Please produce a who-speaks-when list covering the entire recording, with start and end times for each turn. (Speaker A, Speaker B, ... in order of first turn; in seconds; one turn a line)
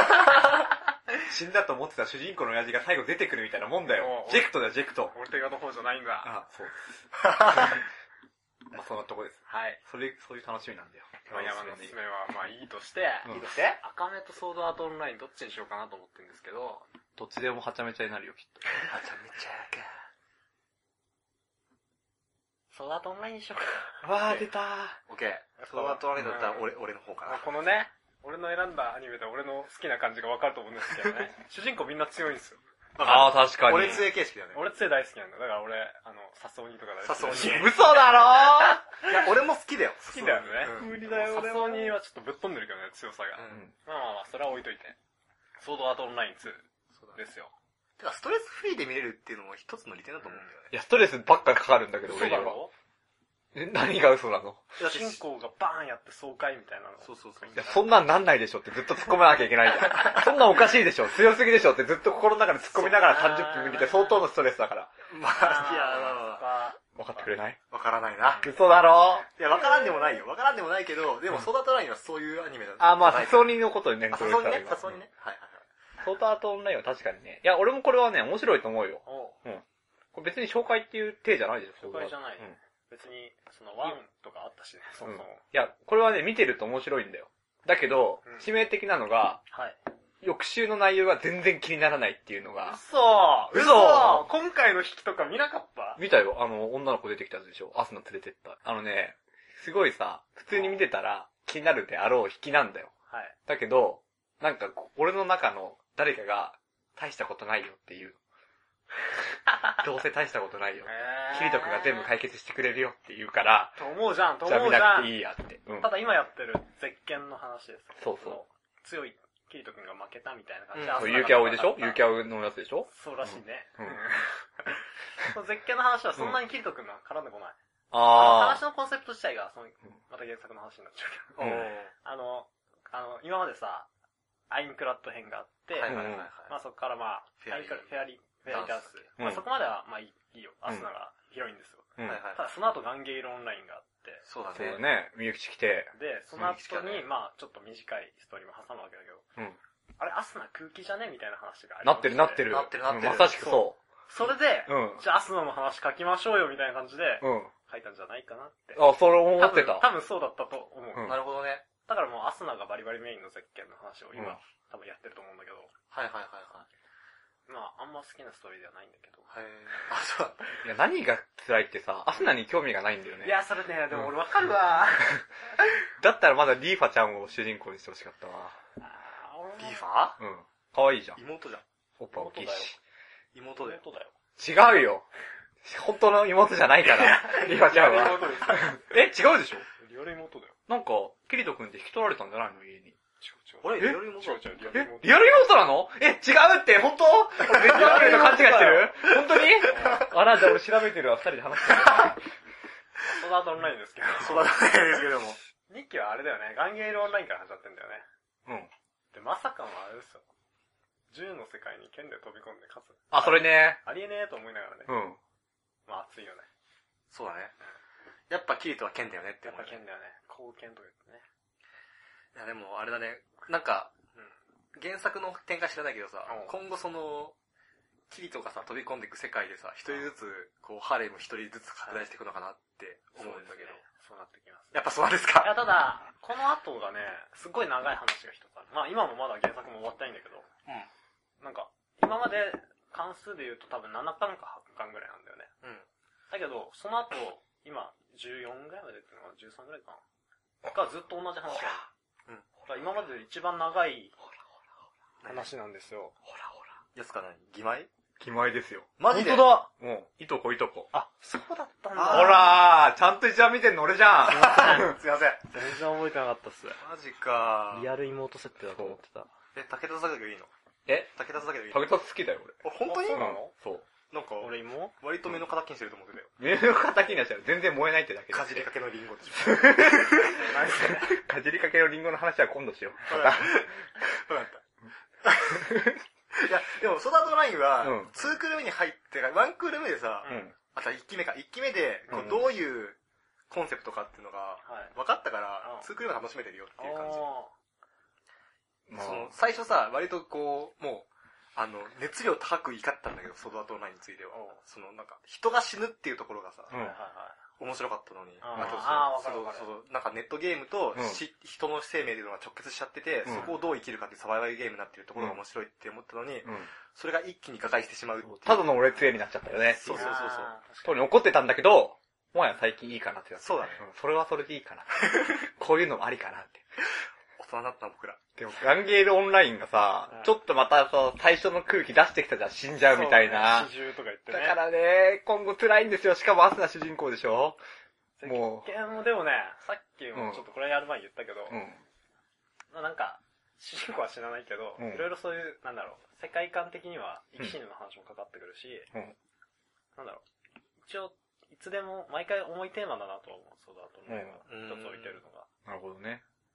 Speaker A: 1.2-5.2
Speaker B: 3.9-4.5
Speaker B: 5.1-6.3
Speaker A: 6.2-7.8
Speaker C: 7.3-7.6
Speaker A: 8.7-12.0
Speaker B: 9.5-9.8
Speaker B: 11.3-16.9
Speaker A: 13.2-13.6
Speaker C: 13.3-13.8
Speaker A: 17.2-18.7
Speaker C: 18.9-19.9
Speaker B: 22.7-24.4
Speaker A: 24.0-25.0
Speaker C: 25.1-27.5
Speaker B: 25.6-26.6
Speaker B: 27.2-32.6
Speaker C: 33.0-34.6
Speaker A: 33.0-34.1
Speaker B: 33.8-37.8
Speaker C: 37.0-37.9
Speaker A: 37.4-39.1
Speaker C: 39.0-41.4
Speaker B: 40.1-45.0
Speaker A: 40.7-41.9
Speaker C: 43.4-43.6
Speaker B: 45.6-47.5
Speaker C: 48.0-50.7
Speaker B: 50.2-50.5
Speaker A: 50.7-52.6
Speaker B: 52.1-52.7
Speaker A: 53.5-54.7
Speaker C: 54.8-55.2
Speaker B: 54.8-58.0
Speaker C: 57.0-57.6
Speaker A: 57.6-64.9
Speaker B: 62.7-64.3
Speaker C: 65.1-66.5
Speaker B: 65.4-67.3
Speaker A: 67.0-67.6
Speaker C: 67.7-68.5
Speaker A: 68.4-69.3
Speaker C: 69.4-73.6
Speaker A: 72.8-75.0
Speaker C: 74.1-75.6
Speaker A: 76.0-82.6
Speaker B: 79.0-79.4
Speaker B: 81.8-85.4
Speaker A: 85.0-89.4
Speaker B: 89.5-89.8
Speaker A: 90.2-92.8
Speaker B: 92.7-96.0
Speaker A: 93.5-94.3
Speaker A: 96.0-102.9
Speaker B: 103.1-103.4
Speaker A: 103.5-108.2
Speaker A: 109.7-113.8
Speaker B: 110.8-112.1
Speaker B: 113.8-115.2
Speaker A: 114.5-115.9
Speaker B: 115.8-122.1
Speaker A: 118.0-118.4
Speaker C: 120.8-121.3
Speaker A: 120.9-124.0
Speaker B: 122.9-133.9
Speaker A: 127.9-128.6
Speaker C: 131.4-131.9
Speaker A: 131.4-131.7
Speaker B: 134.5-144.2
Speaker C: 135.8-136.5
Speaker A: 135.9-136.3
Speaker C: 137.4-139.1
Speaker A: 139.2-139.4
Speaker C: 142.0-142.4
Speaker C: 144.3-144.8
Speaker A: 144.5-145.9
Speaker B: 145.9-149.2
Speaker C: 146.4-147.1
Speaker B: 150.0-152.5
Speaker A: 151.8-153.8
Speaker C: 152.5-153.7
Speaker B: 154.1-158.8
Speaker A: 154.7-155.0
Speaker A: 157.2-157.5
Speaker A: 158.8-159.9
Speaker B: 159.4-161.2
Speaker C: 161.1-161.7
Speaker B: 161.8-165.7
Speaker A: 164.1-164.4
Speaker C: 165.9-166.7
Speaker B: 167.5-169.3
Speaker C: 169.3-170.6
Speaker A: 170.6-173.3
Speaker B: 173.2-175.2
Speaker A: 176.0-178.6
Speaker B: 178.8-179.9
Speaker C: 179.6-180.2
Speaker A: 180.2-181.2
Speaker C: 181.2-181.6
Speaker A: 182.0-182.8
Speaker B: 182.1-182.8
Speaker C: 183.3-183.8
Speaker B: 183.6-184.1
Speaker A: 184.4-185.1
Speaker A: 185.6-189.7
Speaker B: 186.9-188.8
Speaker C: 187.9-188.4
Speaker B: 189.8-190.6
Speaker A: 190.7-193.0
Speaker B: 193.2-195.5
Speaker C: 193.6-194.6
Speaker A: 194.7-202.2
Speaker C: 197.4-200.1
Speaker B: 197.5-199.1
Speaker B: 199.6-200.1
Speaker C: 201.8-202.1
Speaker B: 203.0-204.8
Speaker C: 204.2-205.4
Speaker B: 205.7-208.1
Speaker A: 208.5-208.7
Speaker B: 209.1-210.2
Speaker B: 211.1-214.9
Speaker A: 213.1-213.8
Speaker A: 214.9-215.2
Speaker B: 215.9-216.5
Speaker C: 217.1-217.5
Speaker C: 218.3-219.8
Speaker B: 219.4-221.2
Speaker C: 222.3-223.9
Speaker C: 224.8-227.3
Speaker B: 226.3-226.5
Speaker C: 228.1-233.8
Speaker B: 233.2-234.7
Speaker C: 234.7-235.6
Speaker B: 235.4-240.5
Speaker B: 241.4-245.5
Speaker B: 246.3-250.0
Speaker B: 250.7-251.9
Speaker B: 252.7-254.2
Speaker C: 255.2-255.5
Speaker B: 255.3-256.1
Speaker A: 256.3-256.7
Speaker C: 256.9-257.9
Speaker A: 258.2-259.0
Speaker C: 259.0-259.6
Speaker B: 259.1-259.7
Speaker A: 259.6-260.9
Speaker B: 260.9-262.5
Speaker C: 262.0-262.5
Speaker A: 262.1-265.0
Speaker B: 264.3-264.9
Speaker C: 264.3-265.5
Speaker B: 265.5-266.8
Speaker C: 266.8-267.9
Speaker B: 267.7-269.3
Speaker C: 269.6-270.5
Speaker A: 270.9-271.1
Speaker C: 271.1-272.0
Speaker A: 271.7-272.6
Speaker C: 272.6-273.3
Speaker B: 272.9-273.5
Speaker A: 273.1-273.9
Speaker C: 274.1-276.3
Speaker B: 274.4-274.9
Speaker A: 276.4-278.7
Speaker C: 278.3-280.4
Speaker A: 279.4-283.5
Speaker B: 280.1-281.2
Speaker C: 283.1-284.6
Speaker C: 285.2-293.0
Speaker A: 285.5-286.0
Speaker A: 287.8-288.1
Speaker B: 290.2-290.5
Speaker A: 290.3-290.5
Speaker B: 292.1-292.4
Speaker A: 292.1-292.4
Speaker C: 293.5-297.3
Speaker B: 294.6-294.9
Speaker B: 295.6-295.9
Speaker B: 296.8-297.5
Speaker A: 298.9-299.3
Speaker C: 298.9-306.7
Speaker B: 304.3-304.6
Speaker B: 306.7-307.4
Speaker C: 307.6-318.8
Speaker B: 308.4-309.7
Speaker A: 308.6-309.0
Speaker A: 310.9-311.2
Speaker A: 313.2-313.5
Speaker A: 316.4-316.7
Speaker A: 318.3-320.1
Speaker C: 319.7-320.5
Speaker B: 319.9-321.1
Speaker A: 320.8-326.6
Speaker C: 323.4-323.8
Speaker C: 325.0-325.3
Speaker C: 327.4-328.2
Speaker A: 328.4-333.7
Speaker B: 330.1-330.3
Speaker B: 332.8-334.6
Speaker A: 334.3-337.6
Speaker B: 338.2-341.6
Speaker A: 338.2-338.7
Speaker A: 340.1-340.4
Speaker A: 341.5-341.8
Speaker B: 342.7-348.9
Speaker A: 344.8-345.1
Speaker B: 350.0-350.2
Speaker B: 350.8-355.5
Speaker A: 354.1-354.4
Speaker C: 354.5-355.2
Speaker A: 355.7-356.2